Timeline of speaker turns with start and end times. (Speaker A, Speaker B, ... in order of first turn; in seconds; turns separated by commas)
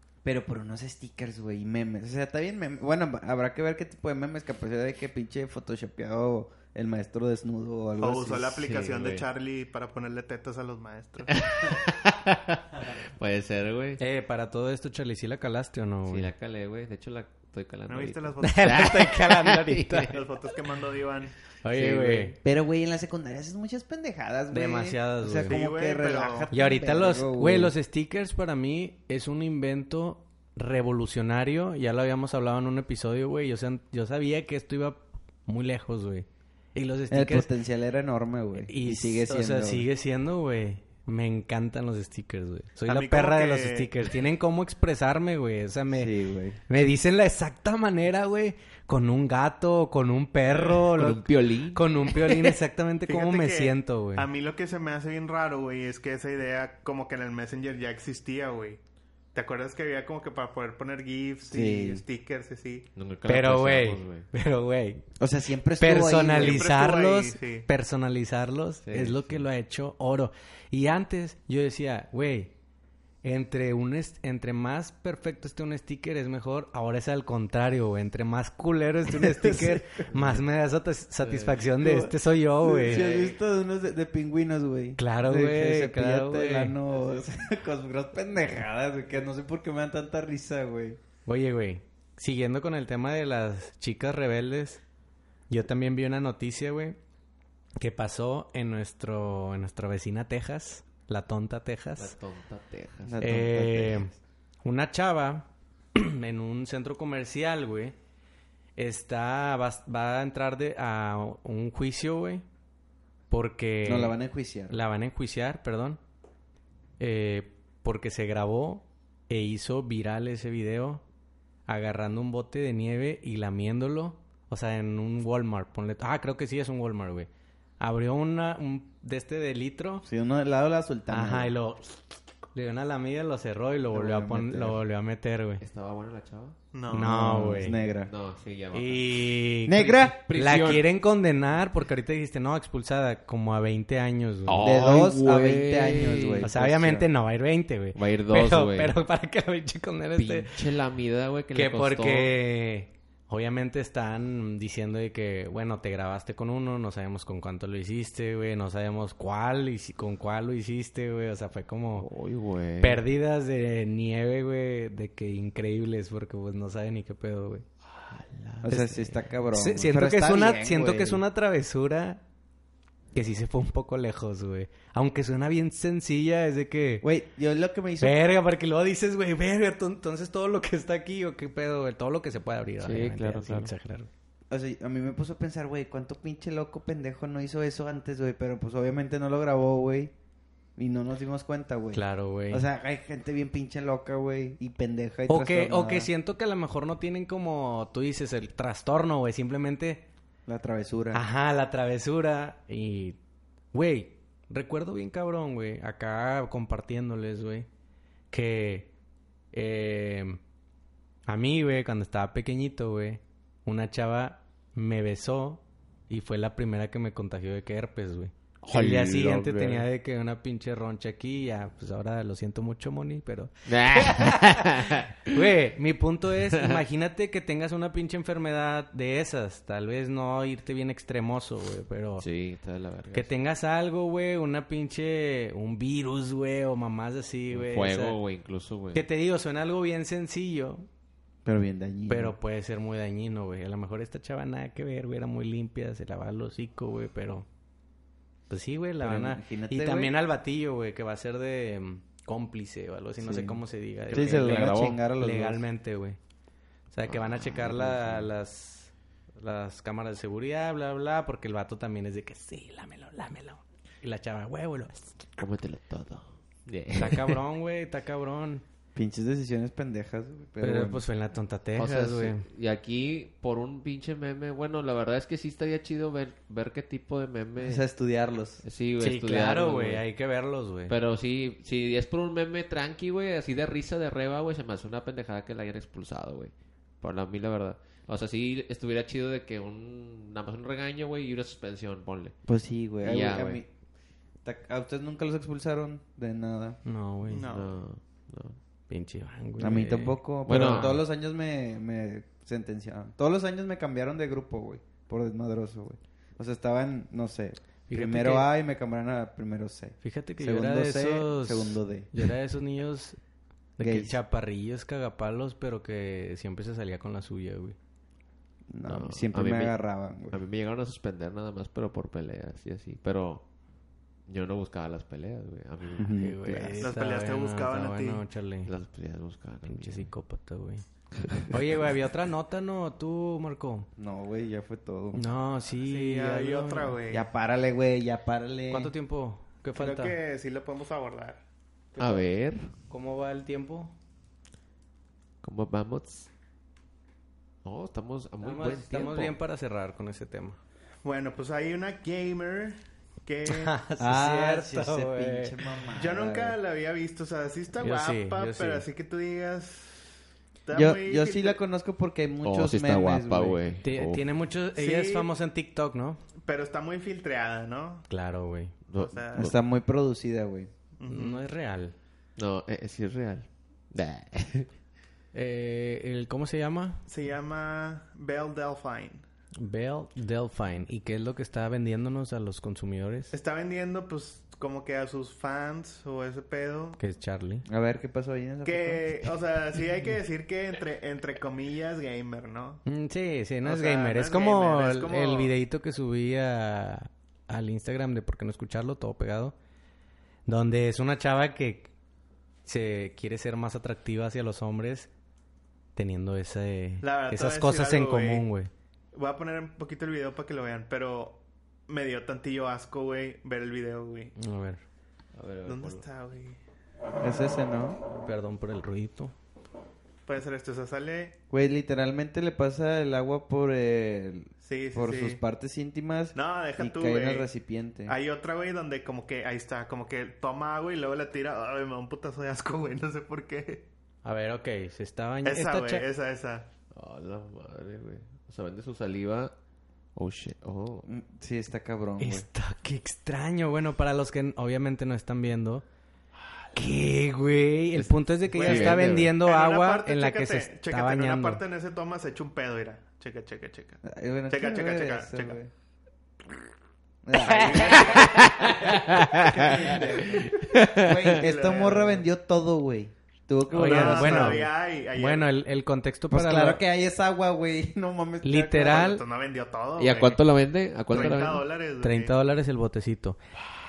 Speaker A: 0.2-8.7, Speaker B: 8.0-11.4, Speaker C: 8.6-9.3, Speaker C: 11.3-14.0, Speaker D: 14.0-16.3, Speaker C: 16.1-20.2, Speaker B: 17.9-18.9, Speaker D: 18.4-20.1, Speaker B: 20.1-21.3, Speaker D: 21.6-22.4, Speaker C: 21.7-22.4, Speaker A: 22.4-27.7, Speaker D: 24.5-25.6, Speaker B: 25.4-26.5, Speaker D: 26.5-37.5, Speaker A: 37.1-39.9, Speaker D: 38.6-46.1, Speaker B: 42.9-43.9, Speaker A: 45.9-46.6, Speaker D: 46.7-54.3, Speaker C: 50.7-52.1, Speaker B: 53.1-58.8, Speaker B: 59.3-62.9, Speaker A: 61.5-62.0, Speaker C: 63.0-64.3, Speaker D: 63.3-65.0, Speaker A: 65.2-66.7, Speaker D: 65.8-72.5, Speaker B: 66.4-67.7, Speaker C: 68.8-69.3, Speaker D: 73.2-83.1, Speaker A: 79.1-80.0, Speaker C: 80.1-80.4, Speaker C: 81.2-81.6, Speaker A: 81.8-91.0, Speaker C: 82.9-83.3, Speaker D: 85.0-86.8, Speaker D: 91.3-94.8, Speaker D: 95.5-97.0, Speaker D: 97.8-102.2, Speaker C: 102.0-103.2, Speaker A: 103.0-104.2, Speaker D: 103.2-108.0, Speaker D: 108.8-112.4, Speaker D: 113.3-114.2, Speaker A: 113.8-114.8, Speaker D: 114.7-116.0, Speaker D: 117.0-121.0, Speaker D: 121.7-127.3, Speaker D: 127.8-130.1, Speaker A: 130.1-131.5, Speaker D: 131.1-132.0, Speaker D: 132.5-135.6, Speaker A: 133.9-134.8, Speaker C: 135.6-136.6, Speaker B: 136.7-137.1, Speaker D: 136.9-137.8, Speaker A: 136.9-138.1, Speaker C: 138.0-139.3, Speaker D: 138.7-144.6, Speaker A: 139.7-140.2, Speaker C: 140.1-140.8, Speaker C: 144.5-146.5, Speaker A: 144.6-147.1, Speaker D: 146.4-150.6, Speaker C: 147.9-149.0, Speaker C: 150.2-152.3, Speaker D: 151.5-162.1, Speaker C: 161.9-163.0, Speaker D: 162.8-167.7, Speaker C: 167.9-168.7, Speaker A: 168.6-171.2, Speaker D: 168.7-172.2, Speaker D: 173.1-177.1, Speaker A: 177.0-178.2, Speaker D: 178.0-184.1, Speaker C: 182.8-183.7, Speaker A: 184.5-190.1, Speaker A: 190.8-196.1, Speaker D: 191.9-192.7, Speaker D: 195.3-200.1, Speaker A: 200.5-201.2, Speaker D: 201.1-203.2, Speaker D: 203.7-207.7, Speaker D: 208.3-208.9, Speaker D: 209.5-210.4, Speaker D: 211.3-232.3, Speaker C: 218.6-219.9, Speaker C: 223.7-225.4, Speaker C: 226.5-226.8, Speaker C: 232.2-233.3, Speaker D: 233.1-238.2, Speaker C: 237.5-239.1, Speaker D: 238.9-240.9, Speaker A: 241.4-242.3, Speaker D: 242.1-247.5, Speaker D: 248.5-256.2, Speaker A: 249.0-250.1, Speaker A: 253.2-255.7, Speaker C: 254.1-255.0, Speaker D: 256.9-265.2, Speaker C: 257.1-258.3, Speaker C: 265.4-267.4, Speaker D: 266.9-268.6, Speaker A: 268.9-271.0, Speaker D: 270.6-272.4, Speaker C: 271.8-277.9, Speaker A: 277.6-278.6, Speaker C: 278.6-280.0, Speaker D: 279.0-280.9, Speaker C: 280.9-292.4, Speaker A: 292.5-293.7, Speaker C: 293.0-293.6, Speaker A: 294.4-296.8, Speaker D: 296.9-297.5, Speaker B: 297.3-297.8, Speaker C: 297.4-298.6, Speaker D: 298.9-301.0, Speaker A: 299.6-312.1, Speaker C: 300.5-301.0, Speaker D: 307.9-308.5, Speaker D: 310.0-313.2, Speaker D: 313.8-317.8, Speaker A: 313.8-314.2, Speaker A: 318.7-320.4, Speaker C: 318.9-319.8, Speaker C: 320.3-323.4, Speaker C: 324.3-326.1, Speaker A: 326.0-326.9, Speaker D: 326.1-328.7, Speaker B: 326.8-328.2, Speaker C: 328.7-330.1, Speaker D: 329.7-330.8, Speaker D: 331.4-333.9, Speaker A: 334.0-335.3, Speaker D: 335.1-337.0, Speaker B: 335.8-337.3, Speaker A: 337.1-338.9, Speaker D: 338.7-340.2, Speaker B: 339.8-341.4, Speaker D: 341.9-342.3, Speaker C: 342.0-342.7, Speaker D: 342.9-343.9, Speaker C: 345.4-346.3, Speaker C: 347.6-349.4, Speaker D: 348.4-350.6, Speaker B: 351.0-353.7, Speaker D: 353.5-355.6, Speaker A: 354.0-356.6, Speaker B: 355.9-360.1, Speaker D: 357.8-358.9, Speaker B: 360.6-361.6, Speaker A: 360.7-363.6, Speaker C: 362.4-364.2, Speaker D: 363.8-366.2, Speaker B: 364.8-365.3, Speaker B: 366.5-368.1, Speaker D: 368.1-368.8, Speaker C: 368.9-369.6, Speaker B: 369.0-369.5, Speaker A: 369.4-370.7, Speaker B: 371.0-371.4, Speaker D: 371.1-371.9, Speaker C: 372.4-374.7, Speaker D: 375.3-377.0, Speaker B: 377.1-379.2, Speaker D: 379.6-383.3, Speaker B: 383.3-387.0, Speaker D: 387.0-387.7, Speaker A: 387.7-389.3, Speaker B: 388.6-392.8, Speaker D: 392.9-399.6, Speaker B: 393.6-395.5, Speaker D: 400.5-401.9, Speaker D: 402.6-405.1, Speaker D: 406.0-408.7, Speaker B: 407.0-408.5, Speaker B: 409.1-414.3, Speaker D: 414.4-414.8, Speaker C: 415.4-416.1, Speaker B: 415.7-416.6, Speaker A: 417.2-418.0, Speaker D: 418.2-419.3, Speaker B: 420.3-421.4, Speaker A: 421.5-428.2, Speaker B: 424.6-425.4, Speaker B: 426.4-427.5, Speaker B: 428.1-433.9, Speaker D: 434.2-436.1, Speaker B: 435.4-436.7, Speaker C: 436.9-439.5, Speaker C: 440.2-441.1, Speaker A: 441.1-442.5, Speaker D: 442.2-445.8, Speaker D: 446.8-451.6, Speaker C: 448.0-449.3, Speaker B: 448.6-455.6, Speaker A: 454.0-455.7, Speaker A: 457.2-464.7, Speaker B: 457.4-458.8, Speaker C: 458.0-461.4, Speaker B: 461.4-462.2, Speaker D: 463.7-466.8, Speaker B: 463.8-465.5, Speaker A: 466.3-469.2, Speaker D: 468.4-469.2, Speaker B: 468.9-470.4, Speaker C: 470.0-471.6, Speaker B: 471.1-472.4, Speaker D: 472.0-473.4